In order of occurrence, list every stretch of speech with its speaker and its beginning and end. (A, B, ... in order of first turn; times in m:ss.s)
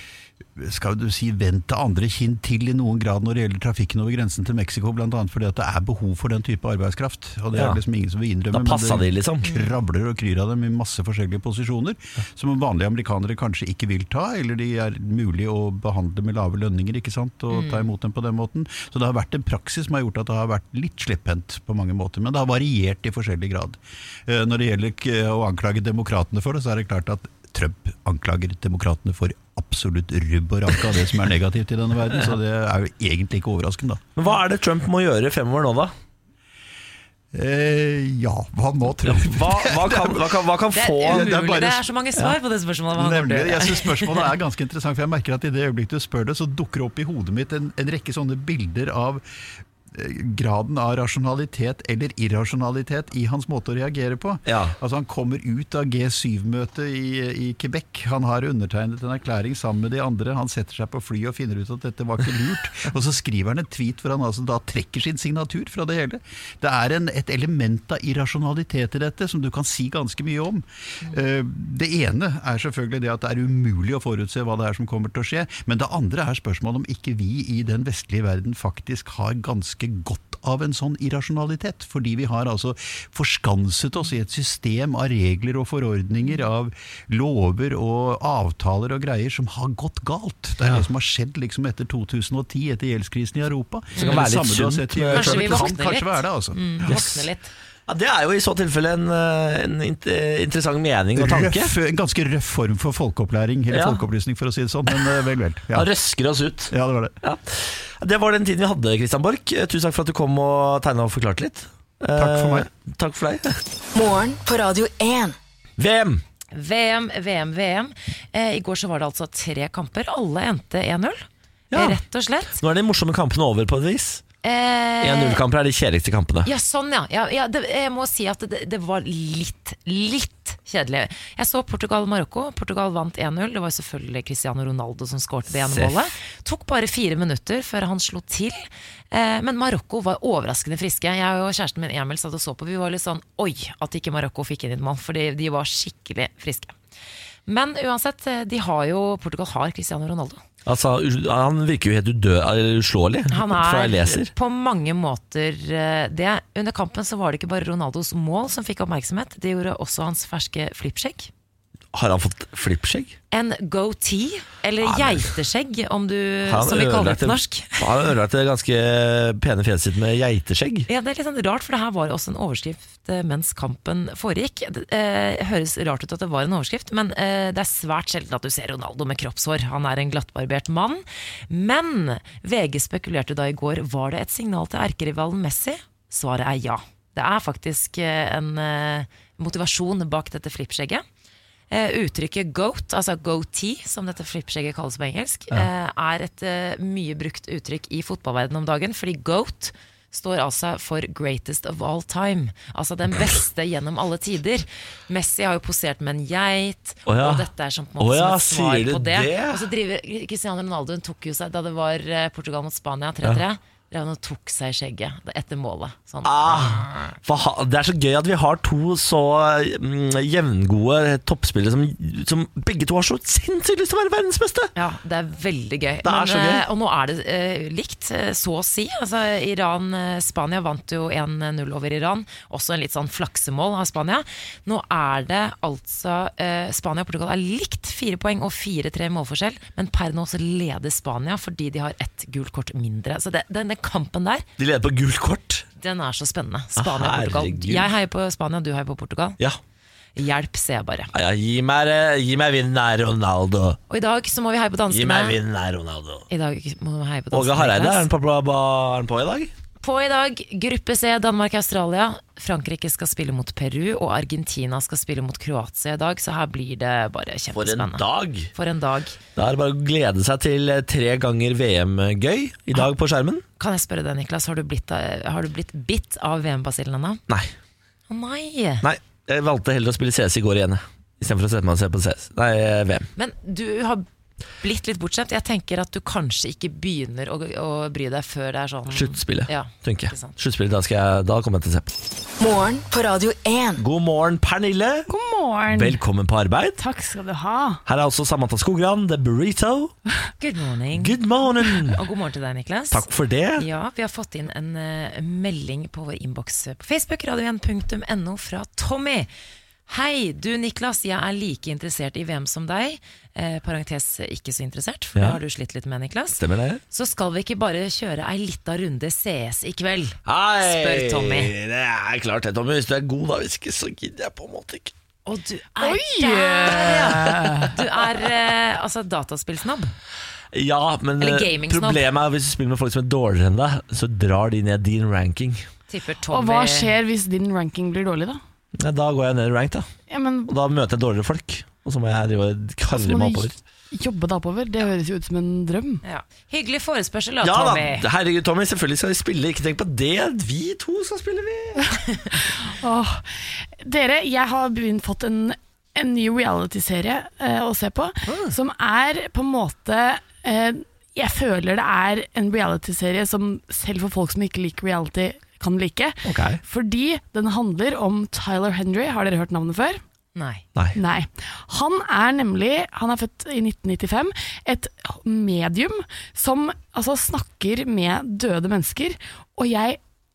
0:00.5-0:34.1 A
0:07.5-0:07.8 B
0:08.5-0:09.5 B
0:09.4-0:09.8 C
0:17.5-0:17.9 C
0:34.2-0:35.9 B
0:37.3-0:40.4 A
0:39.0-0:41.6 B
0:40.7-0:44.3 C
0:41.0-0:41.8 A
0:42.9-0:49.2 A
0:49.9-1:37.0 A
0:54.4-0:54.8 B
1:33.9-1:34.3 C
1:34.0-1:35.8 B
1:35.1-1:37.5 C
1:36.9-1:37.2 B
1:37.9-1:41.7 B
1:41.1-1:45.9 A
1:43.7-1:44.0 B
1:45.7-1:53.6 B
1:46.7-1:47.1 A
1:52.2-1:52.7 A
1:53.9-1:55.4 D
1:55.8-1:56.2 B
1:56.5-2:02.6 C
2:01.7-2:02.0 B
2:02.6-2:04.2 B
2:04.4-2:05.4 C
2:05.0-2:06.5 B
2:06.4-2:26.8 C
2:15.5-2:15.9 B
2:27.4-2:30.4 C
2:30.6-2:34.3 B
2:33.3-2:41.3 C
2:41.9-2:43.2 B
2:43.3-2:48.1 C
2:44.8-2:45.3 B
2:46.4-2:50.9 B
2:50.9-3:11.0 C
3:11.7-3:37.1 C
3:27.0-3:27.5 B
3:28.0-3:29.6 B
3:36.2-3:44.7 B
3:44.7-4:04.4 C
3:46.0-3:46.6 B
4:04.6-4:05.6 B
4:05.8-4:09.4 C
4:06.8-4:07.9 B
4:10.1-4:11.1 C
4:11.1-4:13.8 B
4:13.9-4:15.4 C
4:14.9-4:16.2 B
4:16.3-4:18.0 C
4:17.3-4:19.5 B
4:19.8-4:29.2 C
4:27.5-4:28.5 B
4:29.4-4:33.4 B
4:33.6-4:37.2 C
4:37.3-4:37.5 B
4:38.1-4:38.8 C
4:38.8-4:43.1 B
4:43.2-4:44.0 C
4:44.6-4:50.3 C
4:48.9-4:51.9 B
4:52.4-4:53.8 D
4:53.8-4:55.1 B
4:55.1-4:56.0 E
4:55.7-4:56.8 B
4:56.8-4:57.8 E
4:57.8-4:59.9 B
5:00.4-5:03.0 C
5:01.0-5:02.0 B
5:02.9-5:03.6 B
5:03.6-5:09.3 C
5:09.9-5:21.5 C
5:16.4-5:16.8 B
5:20.2-5:24.9 B
5:25.2-5:29.9 C
5:25.8-5:27.7 E
5:26.8-5:27.8 B
5:30.5-5:35.6 B
5:31.2-5:32.0 C
5:35.9-5:36.9 C
5:36.3-5:38.4 E
5:38.8-5:39.9 B
5:40.1-5:40.5 E
5:40.5-5:43.5 B
5:42.9-5:46.0 E
5:46.0-5:48.0 C
5:47.4-5:52.0 B
5:52.6-6:10.0 E
5:58.3-5:58.5 B
6:06.2-6:06.6 B
6:10.3-6:10.6 C
6:11.0-6:20.0 E